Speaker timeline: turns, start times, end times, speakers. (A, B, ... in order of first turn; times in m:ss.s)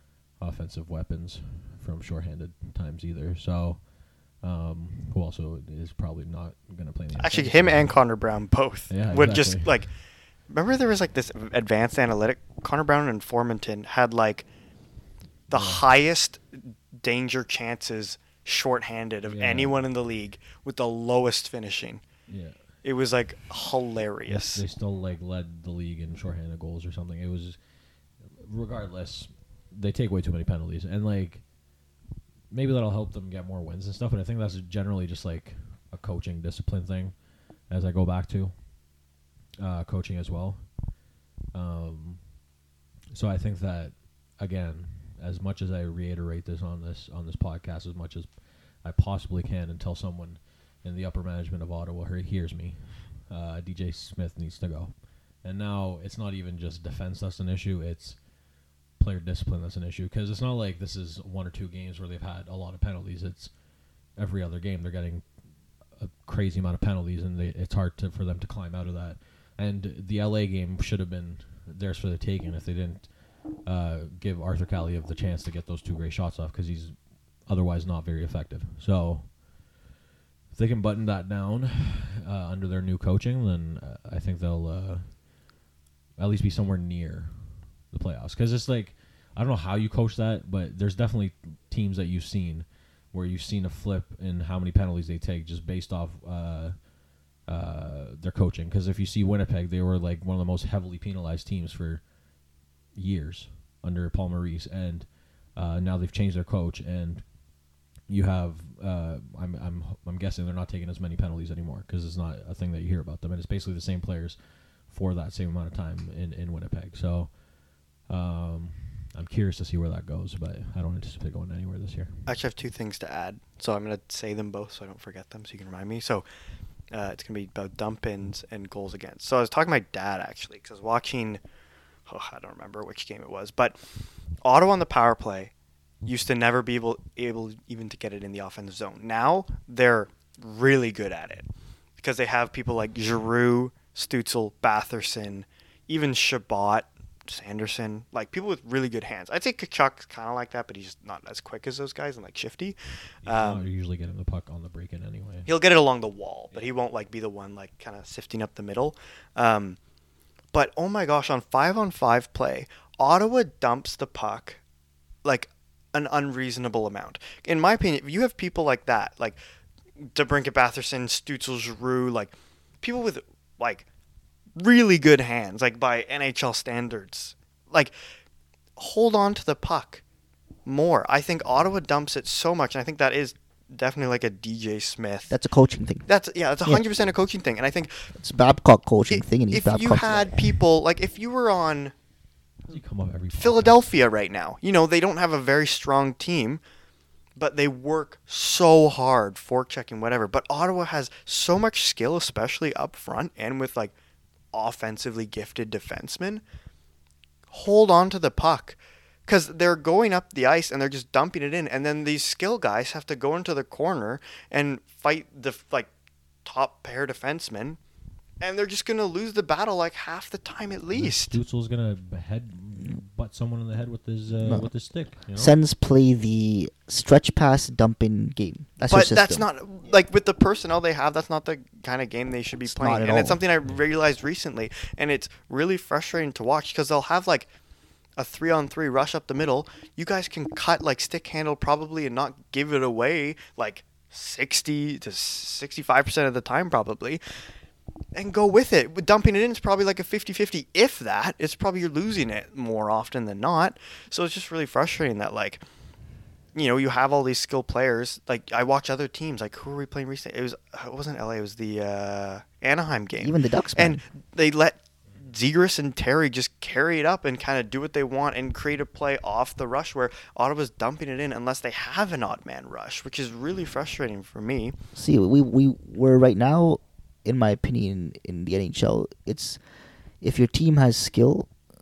0:00.3-0:08.0 A
0:07.2-0:09.9 B
0:08.9-0:09.8 A
0:10.5-0:14.4 B
0:15.5-0:22.0 B
0:15.5-0:15.8 A
0:19.2-0:19.8 A
0:22.3-0:22.6 A
0:22.8-0:24.6 B
0:24.3-0:27.6 A
0:28.2-0:31.4 A
0:32.5-0:37.2 A
0:37.7-0:38.5 A
0:39.6-0:40.8 A
0:41.5-0:42.2 A
0:43.1-0:58.2 A
0:59.0-1:03.5 A
1:04.1-1:05.2 A
1:05.9-1:19.4 A
1:20.5-1:25.2 A
1:26.2-1:36.9 A
1:37.4-1:42.0 A
1:42.9-1:47.3 A
1:48.1-1:57.4 A
1:58.0-2:02.3 A
2:02.2-2:06.2 B
2:06.9-2:11.4 B
2:12.1-2:13.8 B
2:14.4-2:15.5 B
2:16.0-2:21.5 B
2:22.0-2:33.6 B
2:33.2-2:35.5 A
2:35.4-2:39.8 B
2:40.5-2:44.6 B
2:45.2-2:49.4 B
2:50.0-2:53.8 B
2:54.6-2:57.9 B
2:58.8-3:00.0 B
3:00.6-3:05.3 B
3:05.3-3:06.1 C
3:06.1-3:07.9 B
3:08.2-3:10.6 C
3:09.1-3:11.9 B
3:12.7-3:13.8 A
3:13.4-3:16.6 B
3:17.4-3:23.9 B
3:24.5-3:26.4 B
3:27.5-3:35.9 B
3:36.4-3:37.8 B
3:38.4-3:41.4 B
3:40.9-3:45.5 A
3:44.3-3:44.7 C
3:45.3-3:49.5 C
3:48.9-3:57.5 B
3:52.7-3:53.4 C
3:58.2-4:07.2 B
4:08.1-4:15.6 B
4:16.5-4:34.7 B
4:23.2-4:24.0 C
4:34.9-4:39.6 C
4:40.2-4:41.5 C